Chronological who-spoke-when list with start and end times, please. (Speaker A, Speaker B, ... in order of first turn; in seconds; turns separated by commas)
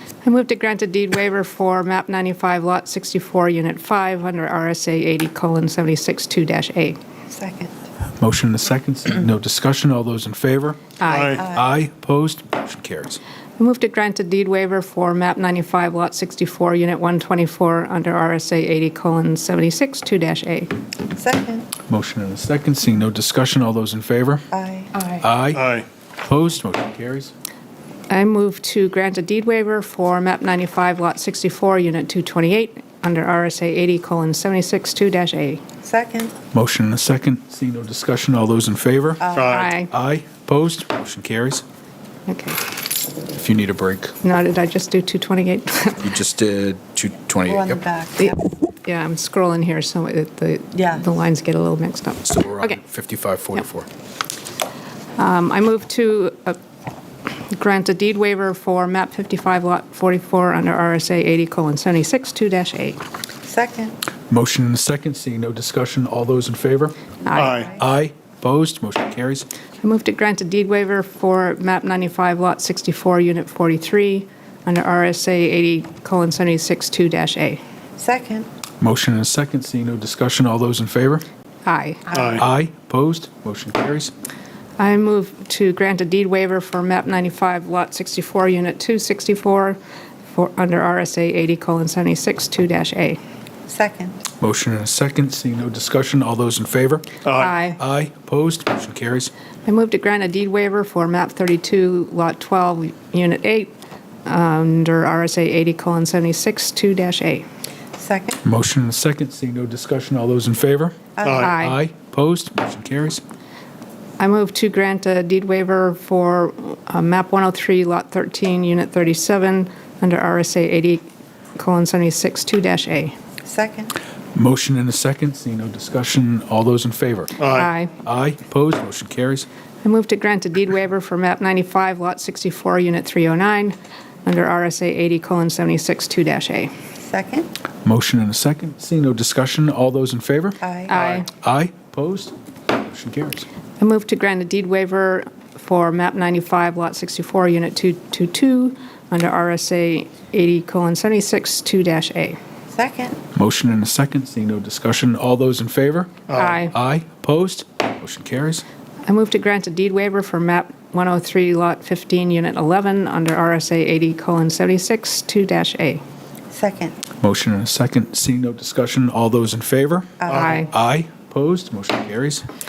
Speaker A: 0.2-7.0, Speaker B: 7.3-7.7, Speaker C: 8.2-13.2, Speaker A: 11.0-11.4, Speaker D: 11.0-11.4, Speaker B: 11.3-11.7, Speaker A: 13.6-20.7, Speaker B: 21.1-21.7, Speaker C: 21.9-24.5, Speaker B: 24.5-24.9, Speaker A: 24.9-25.3, Speaker C: 25.2-27.3, Speaker D: 25.5-25.9, Speaker A: 28.1-35.6, Speaker B: 35.8-36.3, Speaker C: 36.5-39.3, Speaker B: 39.2-39.6, Speaker D: 39.3-39.7, Speaker A: 39.4-39.9, Speaker C: 39.9-41.6, Speaker A: 42.3-42.6, Speaker C: 43.3-44.2, Speaker A: 44.2-46.1, Speaker C: 46.0-47.8, Speaker B: 47.5-48.4, Speaker A: 48.2-52.8, Speaker B: 50.7-51.0, Speaker C: 52.2-53.9, Speaker A: 55.2-56.6, Speaker A: 57.5-63.0, Speaker B: 63.4-63.9, Speaker C: 64.3-67.0, Speaker A: 67.2-67.7, Speaker D: 67.3-67.7, Speaker C: 67.6-69.5, Speaker A: 69.8-77.6, Speaker B: 78.0-78.5, Speaker C: 78.8-81.2, Speaker A: 81.6-82.2, Speaker D: 82.1-82.5, Speaker C: 82.3-84.1, Speaker A: 84.8-89.8, Speaker A: 90.3-93.2, Speaker B: 93.7-94.2, Speaker C: 94.4-97.2, Speaker D: 97.2-97.5, Speaker A: 97.3-97.8, Speaker C: 97.8-99.3, Speaker A: 99.7-103.7, Speaker A: 104.2-107.4, Speaker B: 108.0-108.4, Speaker C: 108.4-113.2, Speaker B: 111.2-111.5, Speaker D: 111.2-111.5, Speaker A: 111.3-111.8, Speaker A: 114.2-121.0, Speaker A: 121.5-123.1, Speaker B: 123.4-123.9, Speaker C: 124.3-127.3, Speaker D: 127.4-127.7, Speaker A: 127.5-127.9, Speaker C: 127.9-129.5, Speaker A: 129.8-136.7, Speaker B: 137.0-137.5, Speaker C: 137.8-143.4, Speaker B: 140.6-140.9, Speaker A: 140.9-141.3, Speaker A: 143.8-152.4, Speaker B: 152.7-153.2, Speaker C: 153.3-158.6, Speaker D: 156.3-156.6, Speaker A: 156.3-156.7, Speaker A: 159.1-166.0, Speaker B: 166.5-166.9, Speaker C: 167.2-172.4, Speaker B: 170.2-170.6, Speaker D: 170.3-170.6, Speaker A: 170.3-170.7